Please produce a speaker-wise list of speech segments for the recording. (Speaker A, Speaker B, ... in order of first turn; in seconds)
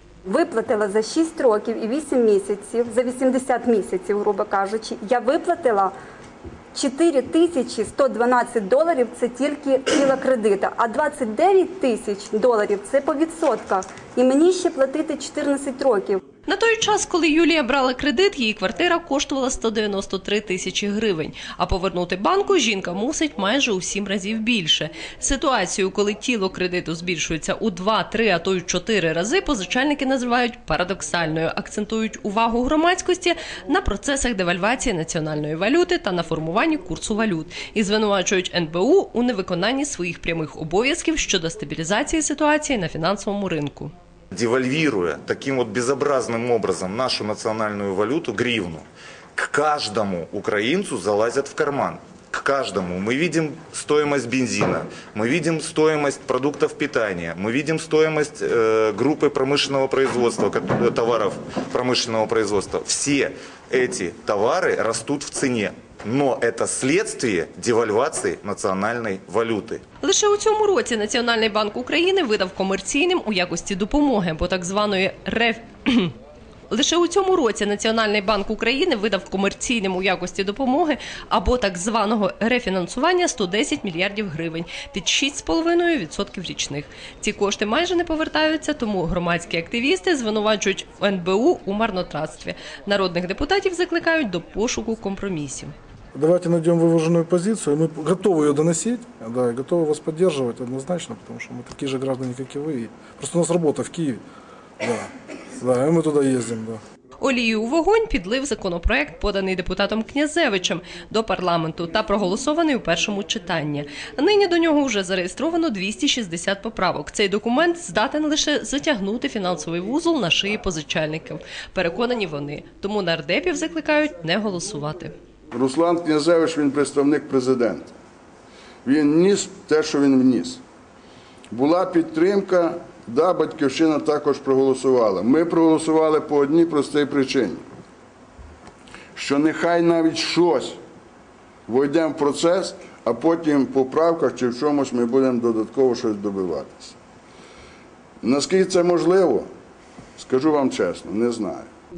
Speaker A: 0.2-5.9, 6.7-16.2
Speaker B: 16.5-43.9, 70.0-76.1, 76.7-95.7, 107.2-125.1
Speaker C: 44.3-69.8
Speaker D: 96.1-104.2, 104.8-106.8
Speaker E: 125.5-127.9, 128.8-130.6, 131.5-137.6, 139.1-140.8, 141.7-146.9, 148.2-149.5, 150.2-151.7